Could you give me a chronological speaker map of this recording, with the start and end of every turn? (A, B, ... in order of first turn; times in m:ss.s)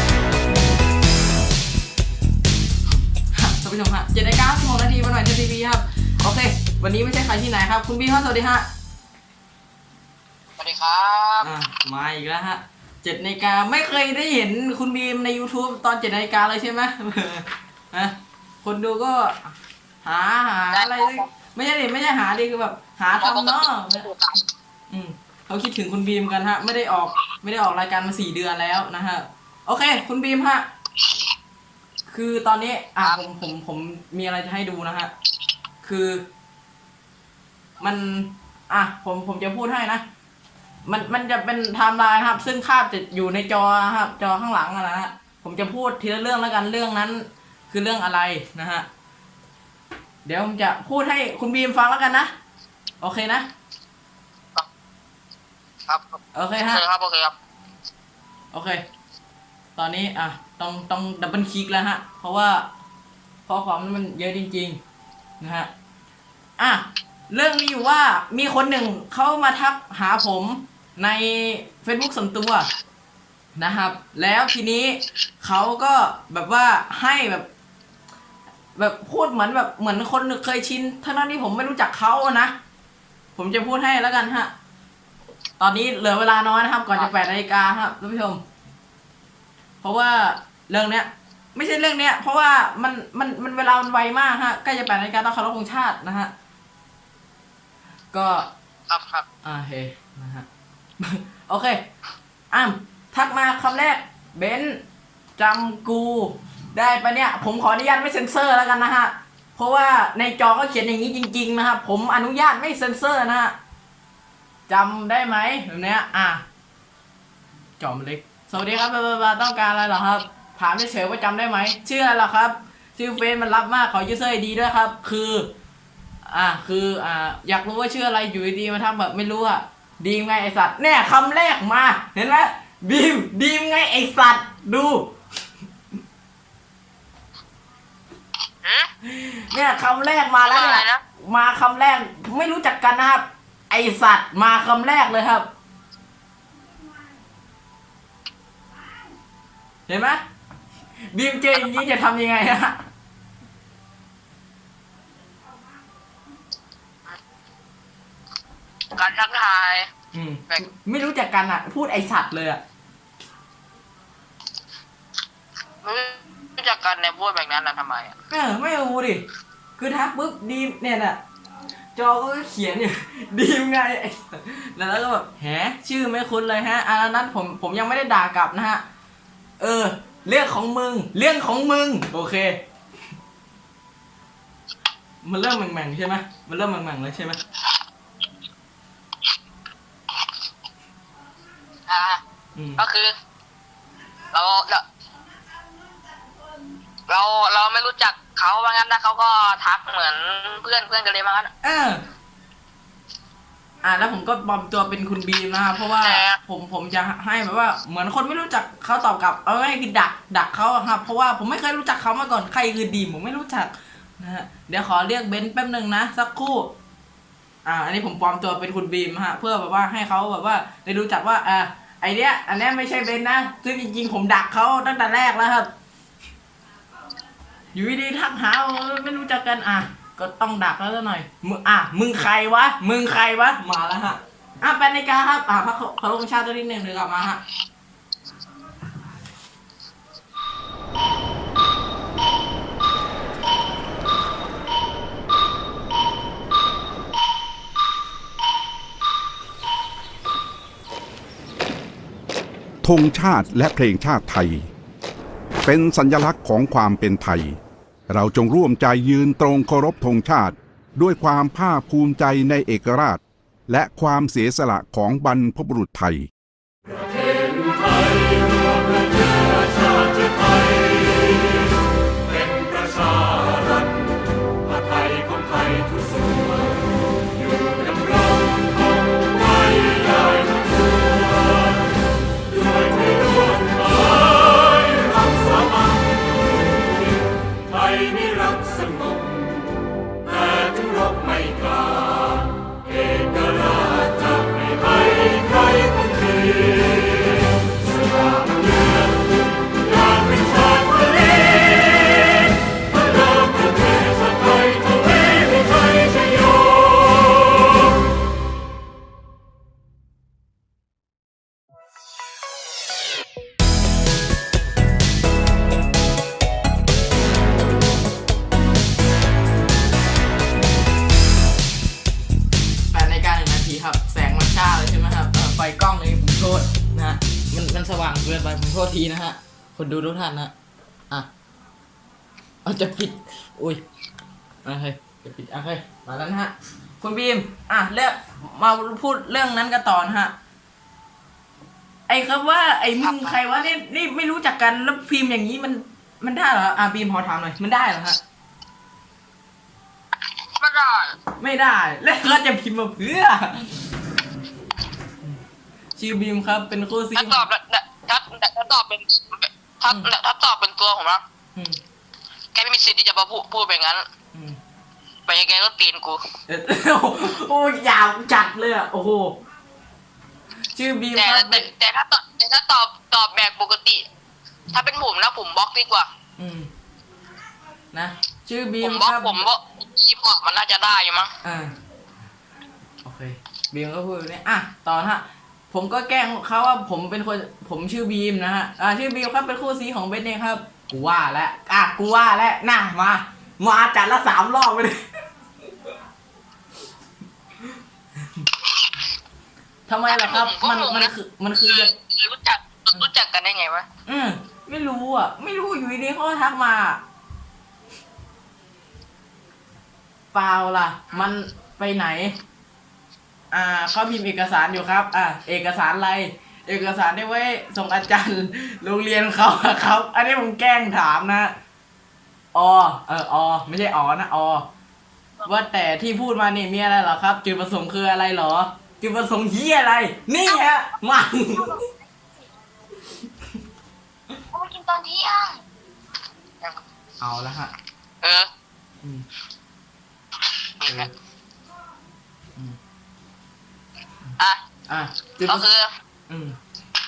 0:03.3-0:08.7 A
0:10.6-0:11.5 B
0:11.4-0:24.1 A
0:20.7-0:21.2 B
0:23.2-0:24.4 B
0:24.9-0:30.7 A
0:32.1-0:35.1 A
0:35.8-0:36.2 A
0:37.8-0:40.0 A
0:40.9-0:48.9 A
0:50.2-0:52.3 A
0:53.0-0:53.5 A
0:55.9-0:57.3 B
0:56.3-0:56.8 A
0:58.5-0:58.8 A
0:59.8-1:02.7 A
1:03.5-1:04.8 A
1:05.4-1:05.7 A
1:06.6-1:12.7 A
1:13.6-1:17.5 A
1:18.8-1:22.5 A
1:23.4-1:24.5 A
1:25.6-1:28.4 A
1:29.8-1:36.3 A
1:38.1-1:38.5 A
1:38.9-1:39.3 B
1:39.4-1:40.5 A
1:41.0-1:41.8 A
1:42.5-1:44.8 A
1:45.4-1:53.6 A
1:54.7-1:56.4 A
1:57.8-2:05.5 A
2:06.3-2:15.1 A
2:18.6-2:18.9 B
2:19.0-2:25.5 A
2:20.4-2:21.0 B
2:29.9-2:30.2 A
2:31.1-2:32.8 A
2:38.9-2:39.9 B
2:40.1-2:42.6 A
2:45.8-2:48.1 B
2:48.3-2:49.2 A
2:49.8-2:51.2 A
2:52.0-2:58.8 A
2:59.6-3:02.6 A
3:05.2-3:07.4 A
3:11.9-3:12.2 B
3:12.5-3:12.8 A
3:12.8-3:13.1 B
3:14.3-3:14.8 B
3:17.1-3:21.5 B
3:21.6-3:22.0 A
3:23.8-3:36.7 A
3:26.0-3:26.4 B
3:37.6-3:45.7 A
3:47.7-3:57.4 A
4:12.8-4:14.7 C
4:15.6-4:17.6 C
4:18.1-4:26.3 C
5:22.9-5:30.5 A
5:32.6-5:33.8 A
5:34.6-5:40.3 A
5:42.1-5:48.2 A
5:50.6-5:51.2 B
5:51.4-5:53.8 A
5:56.0-5:57.5 A
5:57.2-6:01.2 B
6:02.5-6:04.0 B
6:05.3-6:06.2 B
6:06.5-6:09.4 A
6:10.8-6:11.7 A
6:11.2-6:14.0 B
6:14.7-6:16.1 B
6:16.4-6:16.7 A
6:17.9-6:19.4 A
6:18.8-6:21.3 B
6:21.4-6:21.7 A
6:23.0-6:35.0 A
6:39.9-6:41.9 A
6:40.1-6:41.1 B
6:41.7-6:43.9 B
6:44.1-6:47.0 A
6:50.3-6:52.4 A
6:53.5-7:01.6 A
7:02.5-7:04.7 A
7:05.4-7:11.9 A
7:14.5-7:15.6 B
7:17.2-7:17.7 A
7:18.2-7:18.5 B
7:20.8-7:21.1 B
7:24.9-7:25.7 A
7:25.4-7:25.9 B
7:26.3-7:26.6 A